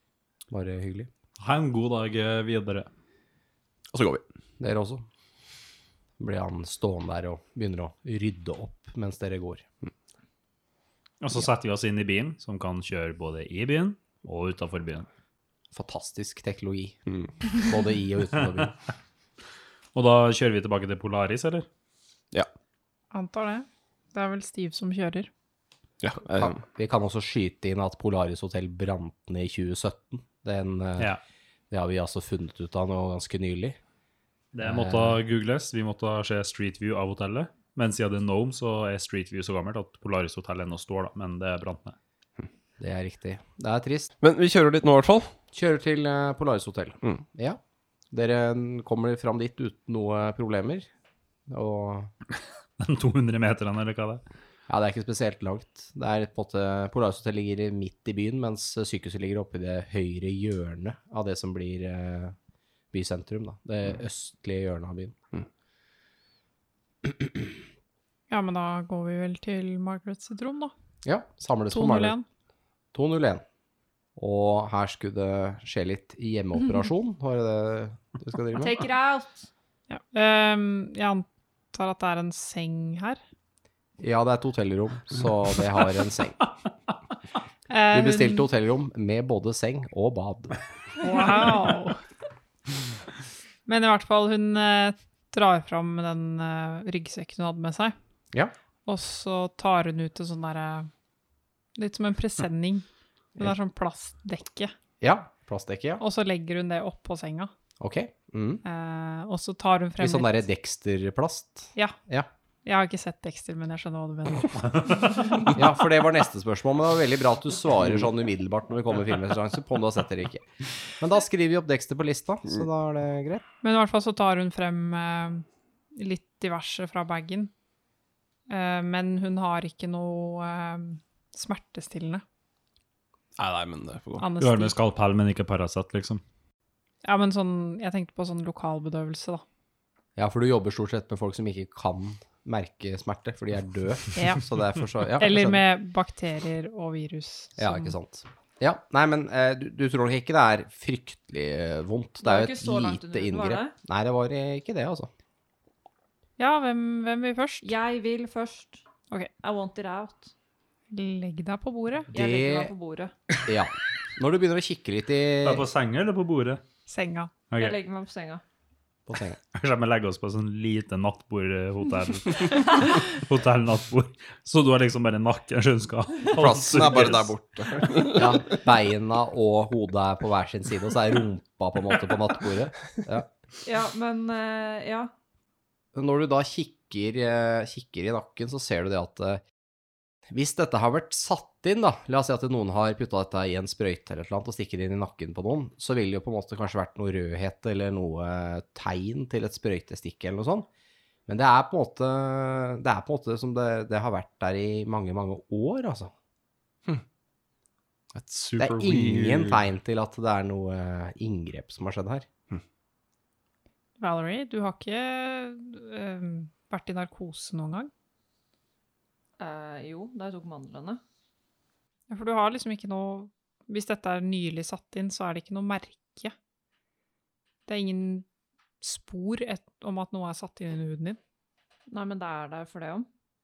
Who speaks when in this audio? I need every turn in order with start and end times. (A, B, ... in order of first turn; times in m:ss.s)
0:00.5-0:01.1 A
0:01.4-0:02.9 B
0:03.9-0:04.2 C
0:04.6-0:05.0 A
0:06.2-0:09.7 A
0:11.2-0:15.1 B
0:15.7-0:17.0 A
0:17.5-0:18.8 A
0:19.9-0:21.7 B
0:23.1-0:25.3 D
0:26.0-0:26.6 C
0:26.2-0:31.1 A
0:31.7-0:33.8 A
0:34.5-0:42.0 B
0:34.6-0:35.2 A
0:42.8-0:44.1 A
0:44.2-0:45.3 C
0:45.5-0:47.6 A
0:48.1-0:50.9 A
0:51.5-0:52.1 A
0:52.8-0:54.2 B
0:54.7-1:02.4 A
1:02.9-1:05.2 A
1:08.3-1:10.7 D
1:11.0-1:12.2 A
1:11.7-1:12.3 D
1:12.9-1:13.4 A
1:14.2-1:18.8 A
1:18.6-1:19.5 E
1:19.9-1:23.2 D
1:24.0-1:26.4 A
1:27.7-1:28.5 D
1:27.9-1:30.6 A
1:31.0-1:32.0 D
1:33.7-1:38.0 D
1:38.9-1:40.9 D
1:41.8-1:42.8 D
1:43.4-1:44.7 D
1:45.0-1:46.0 A
1:46.0-1:47.5 D
1:47.8-1:48.6 A
1:48.6-1:50.3 D
1:50.0-1:52.3 A
1:52.6-1:55.2 D
1:55.5-2:03.4 A
2:03.6-2:07.5 D
2:08.5-2:12.2 D
2:13.4-2:14.3 C
2:14.2-2:14.8 D
2:14.4-2:16.2 B
2:17.0-2:19.4 D
2:20.2-2:25.6 A
2:24.2-2:24.4 D
2:25.2-2:28.0 D
2:27.6-2:35.1 A
2:32.2-2:33.7 E
2:36.4-2:37.7 D
2:37.6-2:38.8 E
2:39.4-2:40.3 E
2:40.9-2:42.1 D
2:42.1-2:42.7 A
2:42.1-2:43.1 E
2:43.4-2:45.7 A
2:45.4-2:46.6 B
2:46.9-2:47.3 D
2:47.5-2:47.8 B
2:47.6-2:48.4 E
2:49.1-2:49.4 A
2:49.5-2:57.3 B
2:56.3-2:58.5 C
2:58.1-3:03.3 A
3:03.6-3:05.1 E
3:06.0-3:09.4 A
3:10.3-3:20.7 A
3:21.3-3:26.1 A
3:28.1-3:29.7 C
3:28.6-3:32.3 A
3:34.0-3:37.9 D
3:39.4-3:41.0 E
3:42.1-3:46.3 D
3:47.7-3:48.3 D
3:48.8-3:51.2 D
3:51.9-3:53.1 E